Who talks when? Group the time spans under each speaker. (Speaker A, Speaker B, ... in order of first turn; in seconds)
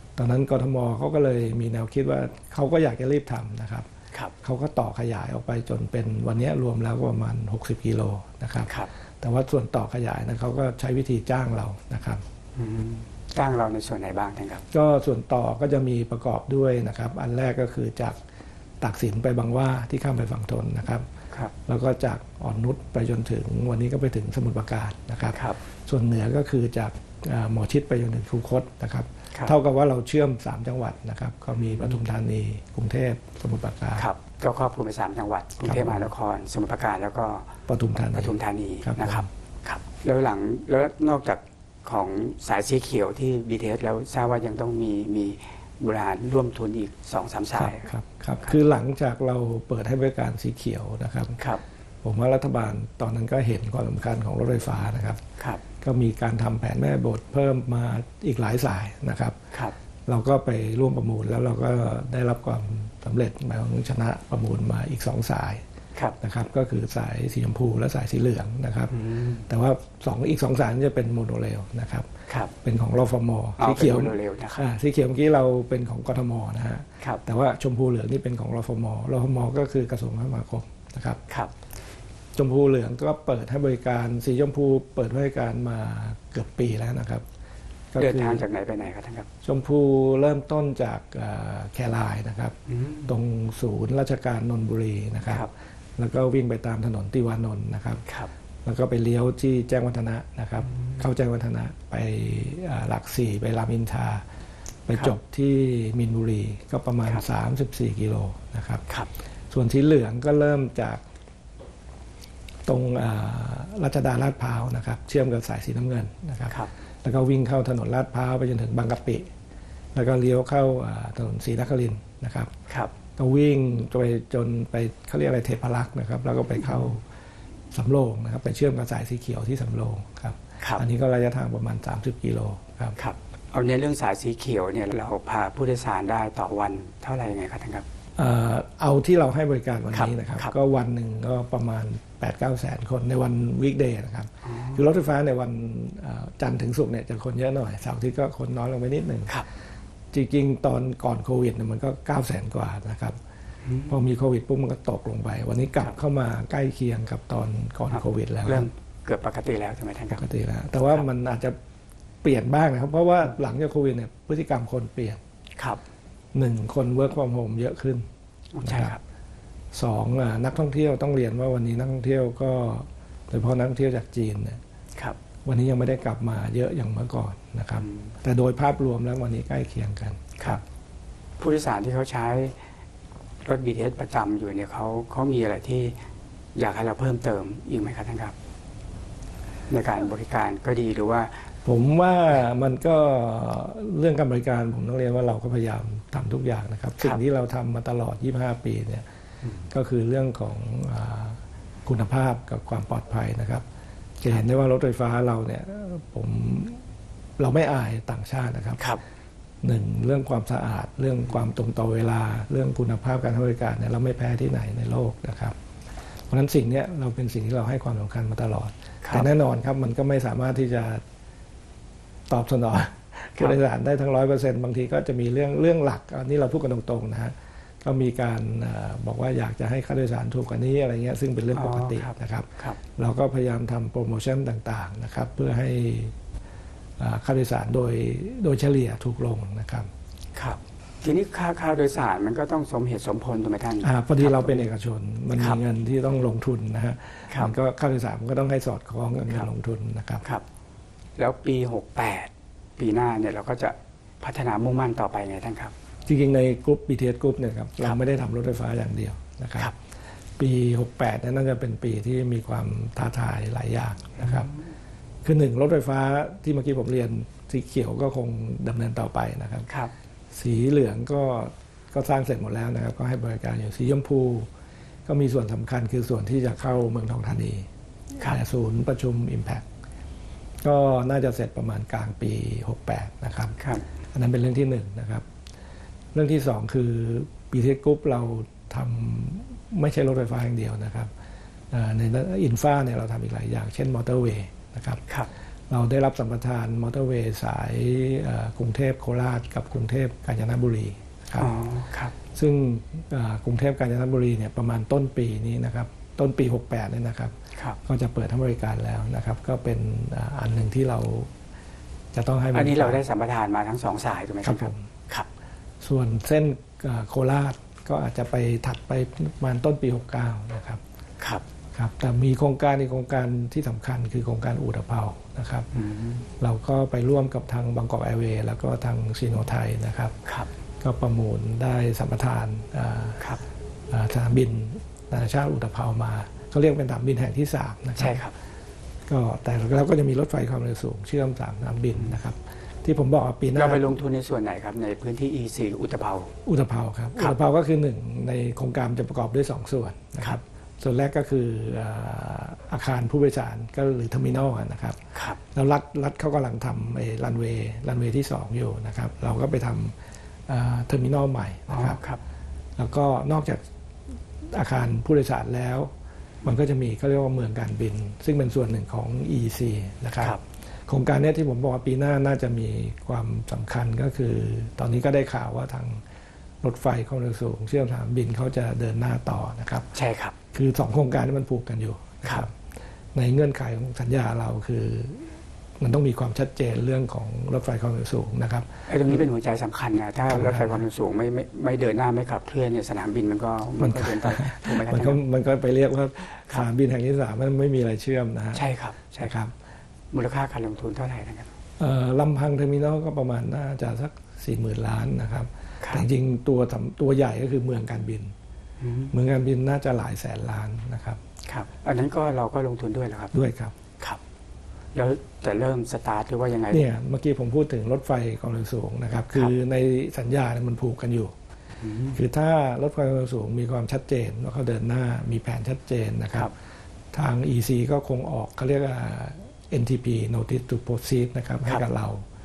Speaker A: 0.2-3.9, 4.4-12.2, 14.7-18.2, 18.8-21.1, 21.7-34.1, 35.6-36.1, 37.7-39.3, 47.6-51.4, 52.0-55.2, 55.8-59.4, 60.1-65.6, 66.2-68.9, 69.5-72.1, 72.6-81.2, 82.3-87.2, 87.9-88.5, 89.4-92.5, 93.1-98.0, 98.6-104.2, 104.9-108.8, 109.5-111.0, 112.7-119.3, 119.9-122.5, 123.2-127.0, 127.7-133.0, 138.2-149.3, 150.1-153.2, 153.9-158.7, 160.2-161.6, 162.2-165.2, 166.3-168.1, 168.6-168.9, 169.7-174.6, 175.4-180.6, 191.7-199.1, 199.7-203.6, 204.2-206.8, 207.4-208.8, 209.6-215.6, 216.3-221.0, 222.3-236.2, 237.0-239.9, 243.8-250.2, 256.1-259.7, 260.4-264.5, 265.2-269.7, 270.3-274.5, 275.1-277.7, 278.2-279.7, 280.6-283.6, 284.1-285.2, 286.1-291.1, 291.7-295.0, 295.7-301.5, 302.3-311.3, 312.1-313.0, 314.4-314.9, 315.8-320.8, 321.8-325.7, 326.4-330.2, 330.8-333.2, 333.9-338.2, 339.1-343.9, 346.4-355.0, 355.5-359.9, 360.5-362.0, 362.8-363.6, 364.5-365.9, 366.4-370.4, 370.9-376.0, 376.6-379.9, 380.5-382.6, 383.1-388.7, 390.3-390.8, 393.8-398.6, 399.2-399.5, 401.8-408.3, 409.1-411.2, 413.3-413.7, 416.7-421.4, 422.1-426.5, 427.1-432.3
Speaker B: 12.6-14.7, 25.3-25.6, 31.7-32.0, 34.0-37.5, 38.1-47.9, 55.4-55.6, 68.9-69.5, 73.6-74.6, 88.0-89.3, 92.7-93.1, 98.1-98.3, 100.7-101.0, 133.0-137.9, 139.9-140.6, 144.4-144.8, 153.7-153.9, 157.9-160.3, 168.6-169.0, 177.8-178.1, 181.4-182.6, 183.4-186.0, 186.6-188.3, 189.7-191.4, 231.5-232.8, 240.4-244.7, 251.2-255.7, 264.2-264.6, 283.6-283.9, 301.4-302.1, 312.5-315.3, 325.7-326.3, 338.0-338.4, 343.6-346.3, 355.1-355.4, 361.7-362.2, 379.9-380.4, 388.9-395.2, 398.5-399.3, 400.1-401.5, 408.8-409.1, 411.5-413.3, 414.9-416.9, 421.8-422.2